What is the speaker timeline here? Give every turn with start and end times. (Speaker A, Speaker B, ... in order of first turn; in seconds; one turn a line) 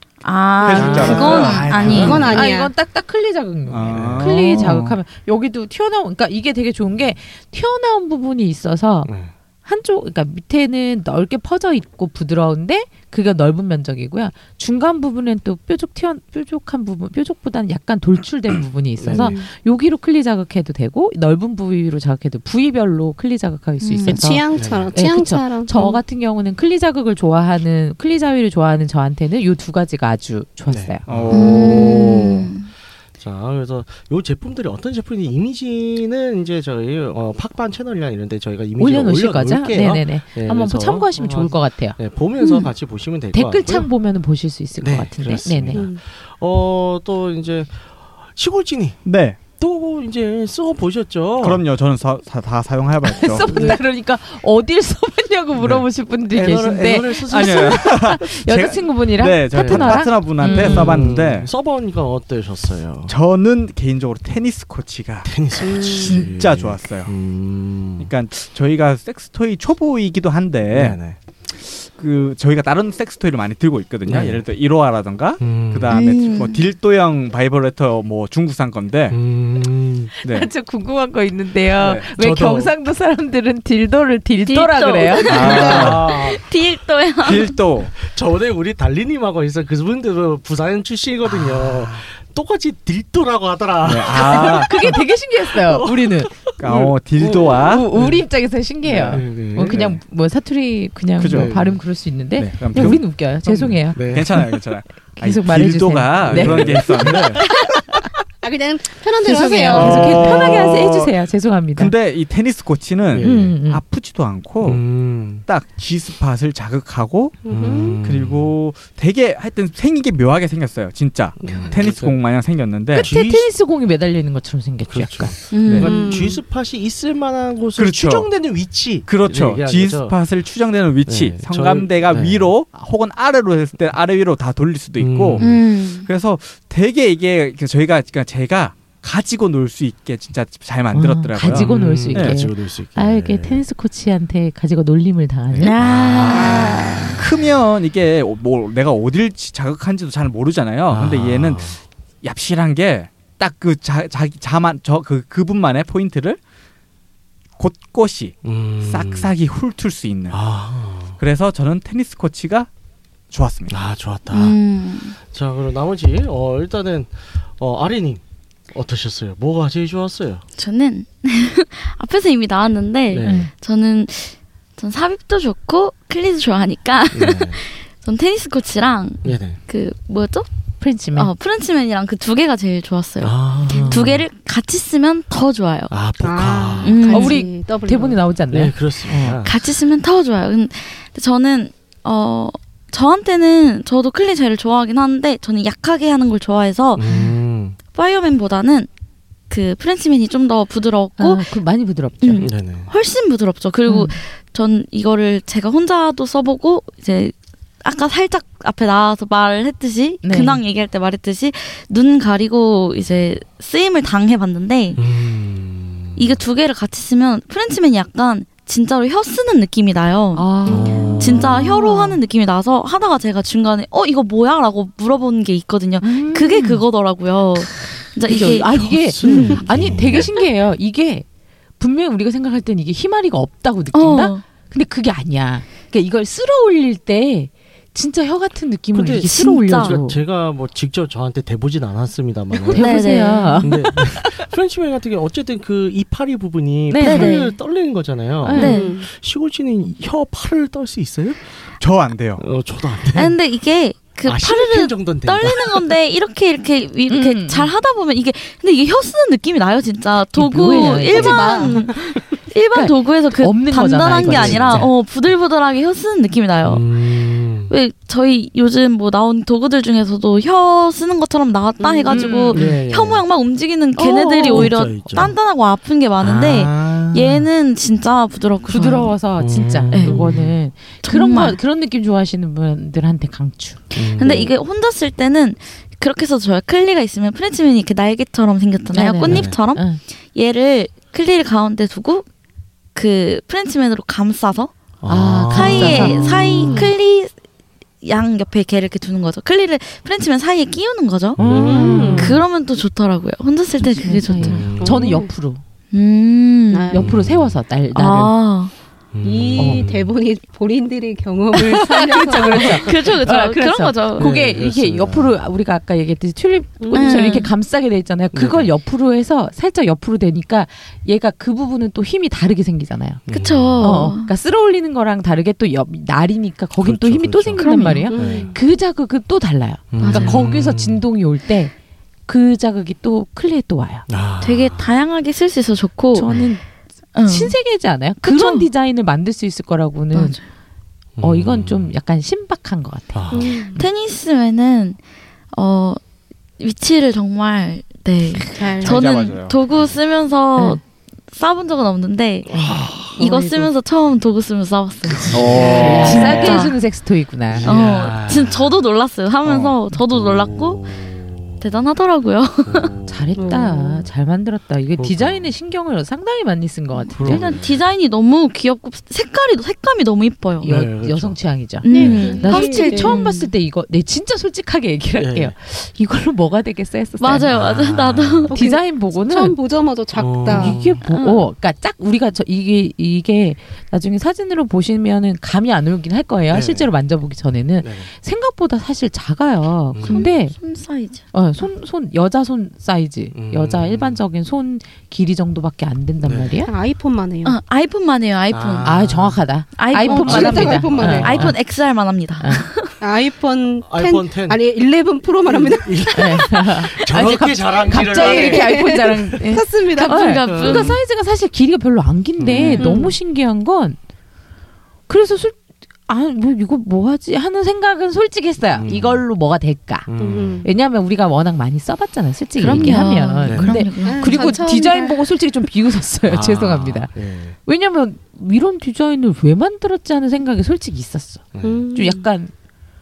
Speaker A: 0.2-2.3
Speaker B: 0.6-2.3
Speaker C: 0.7-2.3
Speaker D: 0.7-1.3
Speaker E: 1.1-2.7
Speaker D: 2.0-9.1
Speaker B: 3.7-5.0
Speaker C: 3.9-4.4
Speaker C: 9.1-9.3
Speaker D: 9.7-31.0
Speaker C: 19.0-19.4
Speaker E: 19.1-19.4
Speaker A: 23.8-24.2
Speaker E: 24.1-26.0
Speaker C: 24.5-25.0
Speaker C: 30.7-32.1
Speaker B: 31.1-32.5
Speaker A: 31.3-32.7
Speaker C: 33.2-43.9
Speaker D: 38.8-42.0
Speaker A: 42.4-42.7
Speaker D: 43.3-45.9
Speaker C: 44.8-51.6
Speaker E: 45.7-46.0
Speaker B: 49.0-49.4
Speaker B: 51.4-53.5
Speaker D: 53.0-61.1
Speaker C: 53.5-53.8
Speaker C: 55.6-58.0
Speaker B: 57.1-61.5
Speaker C: 59.5-63.1
Speaker B: 63.1-67.1
Speaker C: 65.2-68.1
Speaker E: 65.7-66.1
Speaker B: 68.0-71.0
Speaker C: 70.7-71.2
Speaker B: 71.6-79.2
Speaker C: 74.1-74.4
Speaker C: 75.4-76.0
Speaker A: 75.9-76.6
Speaker C: 79.1-80.1
Speaker D: 80.1-85.6
Speaker B: 80.2-80.5
Speaker B: 81.8-82.1
Speaker C: 82.2-82.7
Speaker A: 84.5-87.6
Speaker B: 85.3-86.1
Speaker C: 85.3-86.5
Speaker E: 85.4-85.7
Speaker B: 87.2-87.9
Speaker C: 88.0-98.3
Speaker B: 91.3-92.0
Speaker B: 93.8-94.8
Speaker D: 94.0-96.4
Speaker B: 96.6-97.9
Speaker D: 97.5-104.4
Speaker C: 98.8-100.0
Speaker B: 99.7-100.0
Speaker B: 101.2-101.5
Speaker C: 101.3-101.8
Speaker B: 102.4-107.7
Speaker C: 102.8-104.6
Speaker D: 105.2-107.2
Speaker C: 106.2-107.4
Speaker E: 108.4-110.5
Speaker D: 109.2-111.9
Speaker B: 109.7-111.2
Speaker C: 109.9-110.2
Speaker B: 111.8-117.5
Speaker C: 113.1-113.6
Speaker D: 113.2-113.8
Speaker C: 114.6-115.5
Speaker E: 117.5-118.0
Speaker C: 117.5-118.5
Speaker B: 118.0-123.1
Speaker C: 121.4-122.2
Speaker C: 122.9-123.5
Speaker D: 122.9-125.3
Speaker C: 124.9-130.2
Speaker A: 125.5-126.1
Speaker B: 125.7-125.9
Speaker E: 125.8-126.4
Speaker B: 127.8-128.4
Speaker B: 129.1-142.4
Speaker C: 131.1-132.5
Speaker C: 135.0-135.6
Speaker A: 135.4-136.1
Speaker D: 140.9-145.8
Speaker C: 141.4-143.6
Speaker A: 145.6-147.2
Speaker C: 145.8-147.5
Speaker B: 147.2-156.4
Speaker C: 150.9-151.8
Speaker B: 157.6-160.4
Speaker C: 158.4-159.3
Speaker C: 160.3-161.2
Speaker B: 161.2-162.7
Speaker B: 163.3-163.8
Speaker C: 163.7-164.6
Speaker A: 164.3-165.2
Speaker C: 165.2-170.4
Speaker A: 170.6-180.5
Speaker C: 173.1-173.5
Speaker D: 173.2-173.5
Speaker C: 177.1-177.6
Speaker C: 179.2-179.6
Speaker D: 180.8-181.3
Speaker A: 181.1-185.9
Speaker C: 183.2-184.2
Speaker C: 185.9-187.1
Speaker E: 186.2-188.2
Speaker A: 186.8-187.4
Speaker D: 187.1-189.4
Speaker C: 188.5-189.6
Speaker A: 189.4-197.2
Speaker C: 197.0-197.8
Speaker D: 197.1-197.3
Speaker A: 197.9-198.9
Speaker A: 199.5-201.5
Speaker D: 201.2-202.5
Speaker A: 202.2-215.0
Speaker C: 202.4-202.9
Speaker D: 203.9-204.2
Speaker D: 210.2-210.6
Speaker C: 215.0-216.4
Speaker A: 216.2-230.5
Speaker D: 220.3-222.2
Speaker C: 220.7-221.8
Speaker D: 226.0-226.8
Speaker D: 227.6-231.3
Speaker C: 228.5-230.4
Speaker D: 231.8-240.2
Speaker A: 233.9-234.4
Speaker C: 238.9-243.0
Speaker A: 239.2-240.0
Speaker D: 242.7-244.4
Speaker A: 242.7-243.8
Speaker C: 243.6-251.5
Speaker D: 246.9-247.5
Speaker A: 247.0-247.6
Speaker D: 248.4-248.8
Speaker A: 248.5-249.0
Speaker E: 248.6-249.1
Speaker B: 251.8-252.4
Speaker C: 252.4-253.4
Speaker A: 253.1-267.2
Speaker C: 254.2-255.8
Speaker D: 257.1-257.7
Speaker D: 260.3-261.9
Speaker E: 260.8-262.0
Speaker D: 262.7-264.9
Speaker C: 264.1-264.9
Speaker C: 266.6-267.7
Speaker A: 267.7-279.2
Speaker E: 271.8-272.3
Speaker D: 272.1-272.8
Speaker C: 272.5-273.2
Speaker D: 274.0-274.7
Speaker C: 274.4-275.4
Speaker C: 276.2-277.4
Speaker D: 278.7-283.9
Speaker C: 279.4-280.6
Speaker A: 279.9-280.2
Speaker A: 281.0-281.6
Speaker C: 283.9-284.5
Speaker A: 284.2-292.2
Speaker D: 288.9-290.0
Speaker C: 289.3-289.6
Speaker A: 292.9-294.7
Speaker C: 295.0-296.4
Speaker D: 295.1-296.9
Speaker A: 295.5-297.3
Speaker E: 296.5-296.9
Speaker A: 298.0-304.7
Speaker C: 301.4-302.4
Speaker E: 301.4-302.4
Speaker D: 301.5-302.4
Speaker D: 303.8-305.6
Speaker C: 304.4-305.2
Speaker E: 304.8-305.3
Speaker A: 305.9-307.0
Speaker E: 306.7-307.1
Speaker D: 306.9-308.3
Speaker C: 307.0-307.6
Speaker A: 307.9-308.7
Speaker C: 309.1-310.1
Speaker E: 309.2-313.1
Speaker D: 309.6-309.8
Speaker D: 311.5-323.2
Speaker A: 312.2-314.3
Speaker C: 314.2-315.4
Speaker E: 316.8-317.4
Speaker A: 316.9-317.5
Speaker C: 318.3-318.7
Speaker C: 323.3-324.0
Speaker A: 323.3-324.3
Speaker D: 323.8-331.7
Speaker C: 326.8-328.6
Speaker A: 327.6-328.1
Speaker E: 328.1-328.6
Speaker C: 329.9-331.1
Speaker A: 330.0-330.4
Speaker D: 332.3-334.1
Speaker C: 334.1-334.9
Speaker A: 334.4-336.5
Speaker D: 336.1-336.6
Speaker A: 337.1-337.6
Speaker D: 337.2-340.4
Speaker A: 338.2-338.7
Speaker A: 340.1-340.4
Speaker C: 341.2-341.9
Speaker D: 341.2-343.5
Speaker C: 343.1-343.7
Speaker E: 343.3-343.8
Speaker A: 343.6-345.0
Speaker A: 345.5-346.0
Speaker A: 346.6-352.6
Speaker E: 348.5-349.0
Speaker B: 348.8-349.6
Speaker C: 352.5-353.2
Speaker A: 353.2-356.8
Speaker E: 353.2-353.7
Speaker C: 355.1-356.7
Speaker B: 355.3-356.4
Speaker D: 355.6-357.8
Speaker E: 355.6-356.1
Speaker C: 357.5-358.8
Speaker A: 357.6-360.9
Speaker C: 359.4-361.7
Speaker A: 361.6-362.9
Speaker C: 362.6-363.7
Speaker D: 363.1-367.6
Speaker E: 363.4-364.0
Speaker C: 365.0-365.5
Speaker C: 367.1-367.8
Speaker A: 367.1-370.7
Speaker D: 370.6-377.6
Speaker C: 370.6-372.5
Speaker A: 371.8-373.5
Speaker E: 371.9-373.2
Speaker C: 375.2-375.6
Speaker A: 377.2-378.6
Speaker C: 377.5-378.5
Speaker D: 378.5-379.6
Speaker E: 378.5-380.8
Speaker C: 380.1-381.1
Speaker D: 380.5-390.6
Speaker C: 386.5-386.9
Speaker C: 387.8-388.1
Speaker C: 389.9-390.3
Speaker A: 390.0-391.3
Speaker D: 391.3-396.7
Speaker C: 393.3-394.2
Speaker C: 396.2-396.6
Speaker E: 396.6-397.6
Speaker A: 397.4-398.9
Speaker C: 398.5-399.5
Speaker D: 398.8-401.6
Speaker A: 399.8-402.9
Speaker E: 400.0-401.5
Speaker C: 400.2-401.6
Speaker D: 402.4-402.7
Speaker E: 403.0-406.5
Speaker C: 403.9-404.6
Speaker C: 405.4-409.4
Speaker D: 406.1-414.0
Speaker E: 407.9-410.4
Speaker A: 410.0-411.0
Speaker C: 410.5-411.0
Speaker C: 412.4-412.9
Speaker E: 412.8-413.2
Speaker D: 415.1-420.1
Speaker C: 418.7-419.2
Speaker C: 420.1-420.7
Speaker E: 420.2-420.7
Speaker D: 420.6-432.5
Speaker A: 422.6-424.6
Speaker C: 422.8-423.9
Speaker E: 424.0-425.3
Speaker C: 426.2-427.6
Speaker C: 431.5-431.9
Speaker E: 431.6-432.2